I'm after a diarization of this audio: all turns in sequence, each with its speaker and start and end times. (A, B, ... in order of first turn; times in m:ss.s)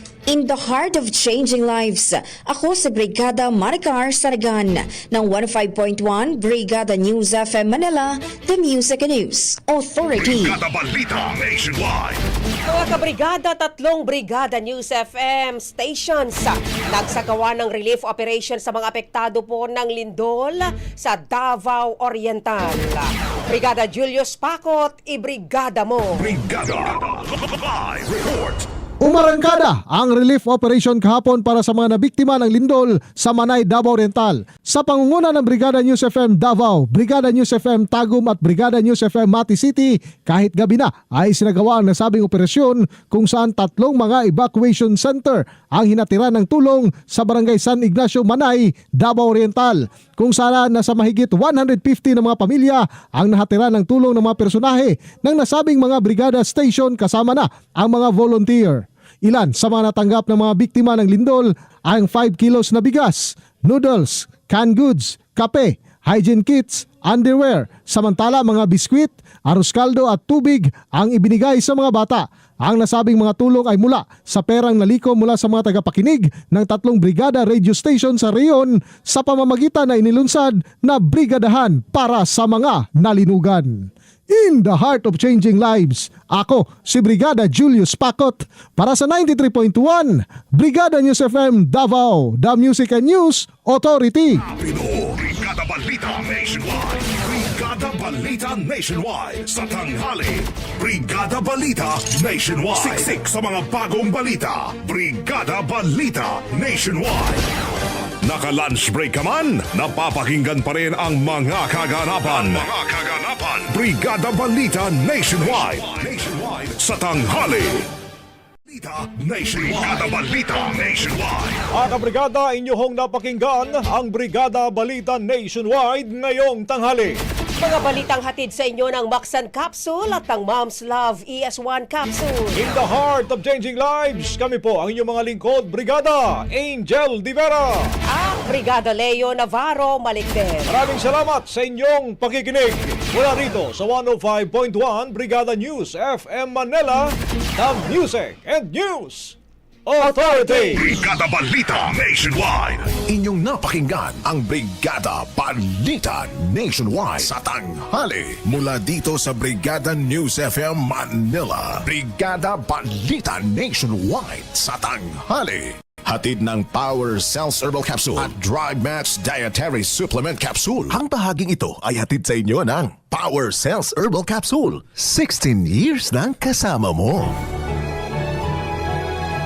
0:00.3-0:10.6 A
0:10.2-0:12.2 B
0:12.7-0:26.2 C
0:26.2-0:28.6 B
0:29.0-1:34.4 D
1:34.4-1:47.4 B
1:48.2-1:57.8 B
1:58.7-2:01.6 B
2:01.7-2:07.2 E
2:07.6-2:12.6 C
2:12.6-2:17.9 E
2:18.1-2:20.8 C
2:20.7-2:29.4 E
2:29.9-2:30.8 E
2:30.0-2:31.0 C
2:30.8-2:32.9 B
2:33.1-2:57.3 F